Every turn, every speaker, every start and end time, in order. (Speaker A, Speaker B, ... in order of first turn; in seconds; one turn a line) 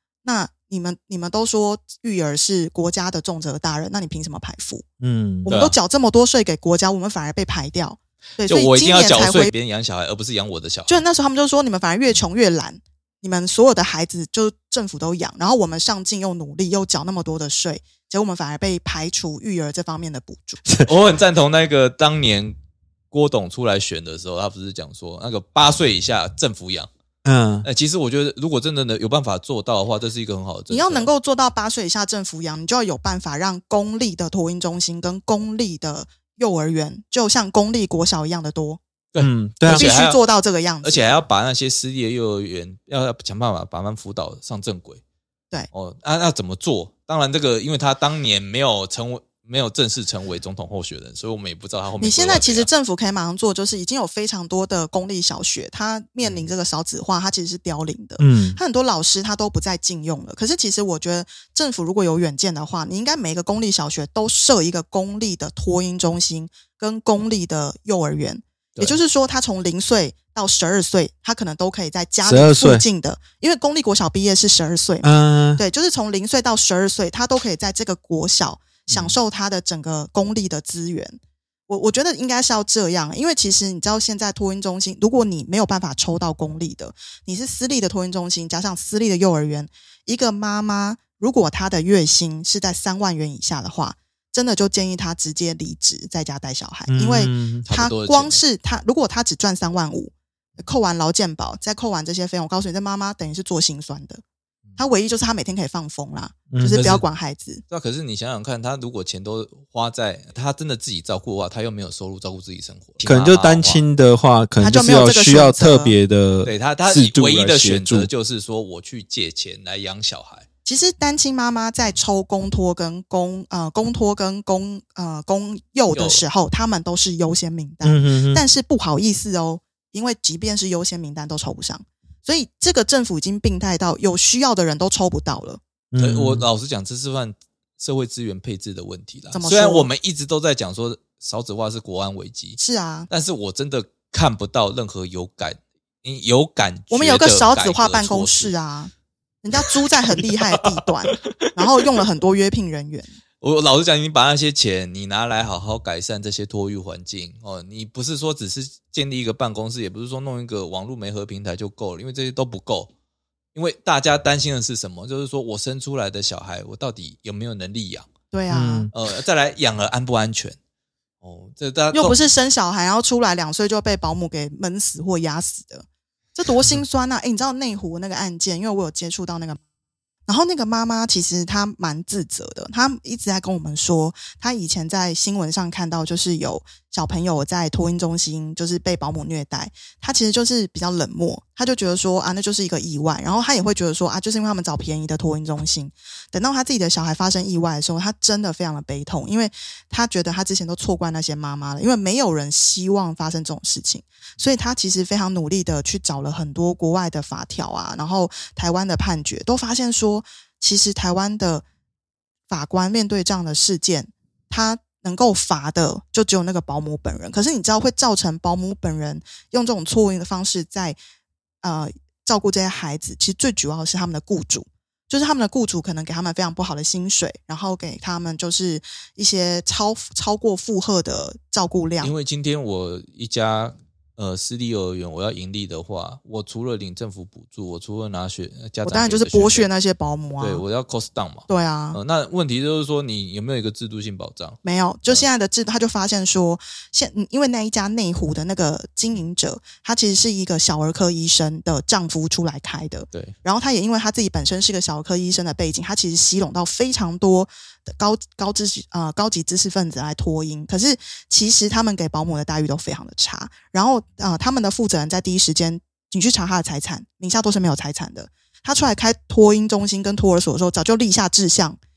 Speaker A: 0.2-4.8
Speaker B: 5.0-5.5
Speaker A: 5.5-9.5
Speaker C: 5.5-5.8
Speaker C: 8.4-11.0
Speaker A: 10.9-20.6
Speaker C: 20.8-22.6
Speaker C: 23.1-26.9
Speaker B: 27.2-27.6
Speaker C: 27.6-31.1
Speaker A: 30.7-38.8
Speaker C: 39.1-40.2
Speaker B: 39.2-39.9
Speaker A: 39.6-41.2
Speaker C: 40.8-45.0
Speaker C: 45.7-52.7
Speaker A: 52.0-104.2
Speaker B: 58.2-58.6
Speaker B: 72.2-72.8
Speaker B: 75.0-75.6
Speaker B: 96.9-97.6
Speaker C: 97.7-98.4
Speaker A: 104.8-107.6
Speaker B: 106.5-107.0
Speaker C: 107.7-113.8
Speaker B: 113.0-118.1
Speaker A: 114.6-115.9
Speaker C: 116.4-120.5
Speaker A: 120.6-135.6
Speaker C: 125.9-126.2
Speaker B: 127.8-128.4
Speaker B: 135.9-136.4
Speaker C: 136.0-142.6
Speaker A: 139.3-139.9
Speaker A: 142.6-143.1
Speaker C: 143.1-148.5
Speaker A: 146.9-148.9
Speaker A: 149.4-153.1
Speaker C: 149.6-152.0
Speaker C: 153.4-162.9
Speaker C: 163.5-168.1
Speaker A: 168.3-168.9
Speaker B: 168.5-168.9
Speaker C: 168.9-170.6
Speaker C: 171.2-172.2
Speaker A: 171.9-179.6
Speaker A: 180.3-211.6
Speaker A: 212.5-221.0
Speaker A: 221.6-232.1
Speaker C: 232.0-239.7
Speaker A: 238.8-240.6
Speaker C: 240.4-245.2
Speaker A: 241.5-242.0
Speaker A: 244.6-271.8